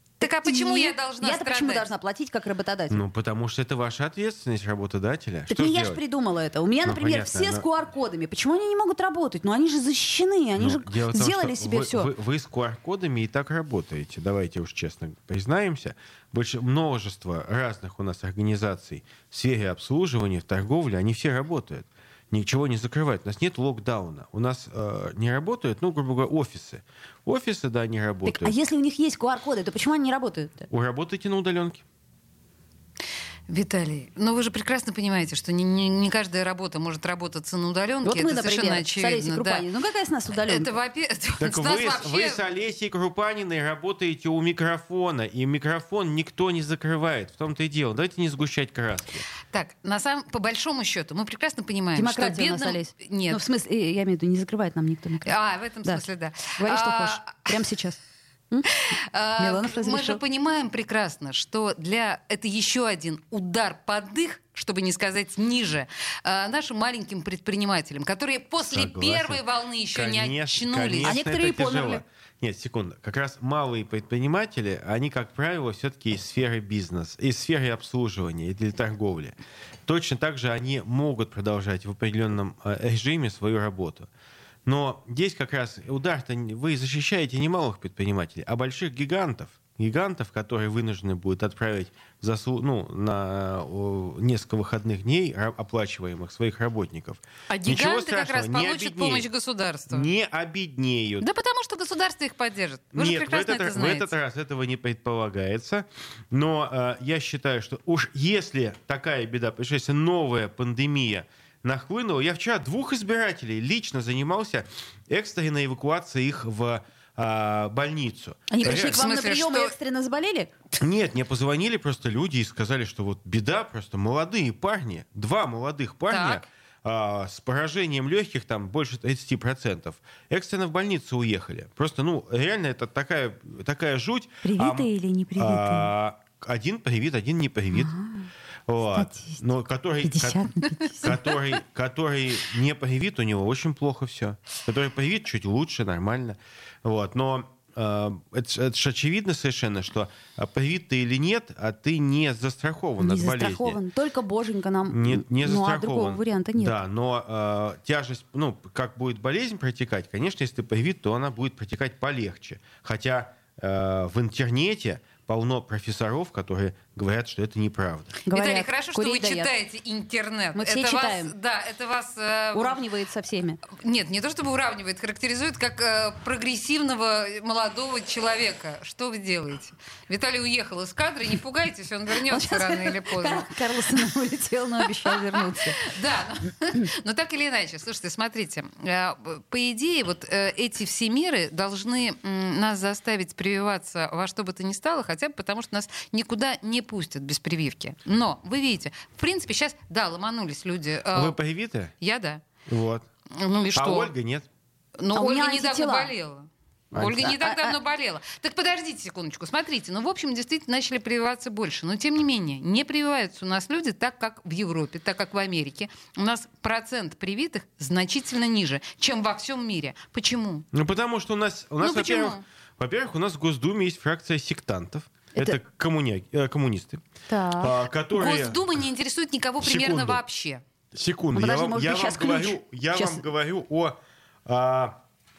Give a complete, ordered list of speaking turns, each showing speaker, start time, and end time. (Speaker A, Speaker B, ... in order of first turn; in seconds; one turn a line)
Speaker A: 0.2-1.9
Speaker B: 0.2-3.0
Speaker C: 2.9-6.0
Speaker B: 5.5-12.1
Speaker C: 6.8-7.7
Speaker C: 10.6-28.6
Speaker B: 28.2-30.7
Speaker C: 30.7-31.8
Speaker A: 33.5-39.6
Speaker B: 38.0-40.7
Speaker A: 40.5-42.4
Speaker C: 41.4-49.3
Speaker A: 49.5-53.4
Speaker B: 52.0-56.0
Speaker A: 55.2-57.6
Speaker B: 56.6-58.0
Speaker A: 58.7-71.2
Speaker B: 59.4-60.2
Speaker C: 68.6-79.3
Speaker B: 71.0-72.0
Speaker C: 79.9-84.1
Speaker C: 84.7-99.3
Speaker A: 97.5-100.1
Speaker C: 99.9-101.3
Speaker A: 101.2-104.1
Speaker C: 102.9-119.0
Speaker B: 118.5-120.5
Speaker A: 118.6-119.7
Speaker C: 120.8-137.9
Speaker A: 126.1-126.5
Speaker B: 134.4-135.9
Speaker B: 137.7-138.3
Speaker C: 138.7-153.8
Speaker B: 138.9-139.4
Speaker B: 140.0-141.2
Speaker B: 153.0-156.8
Speaker C: 154.9-168.2
Speaker B: 168.3-169.5
Speaker A: 168.3-172.8
Speaker B: 170.6-171.3
Speaker B: 172.5-173.6
Speaker A: 173.7-183.6
Speaker B: 182.3-185.8
Speaker A: 185.0-201.4
Speaker C: 201.1-201.9
Speaker A: 202.0-202.4
Speaker C: 202.7-203.1
Speaker A: 203.3-204.1
Speaker C: 203.7-204.5
Speaker A: 205.0-220.7
Speaker B: 205.1-206.1
Speaker C: 206.9-207.3
Speaker B: 207.0-207.8
Speaker C: 220.7-227.0
Speaker A: 221.8-222.4
Speaker B: 225.3-225.6
Speaker B: 227.3-227.7
Speaker C: 227.6-228.8
Speaker A: 228.1-230.6
Speaker C: 229.6-230.2
Speaker C: 230.9-235.0
Speaker B: 231.3-233.2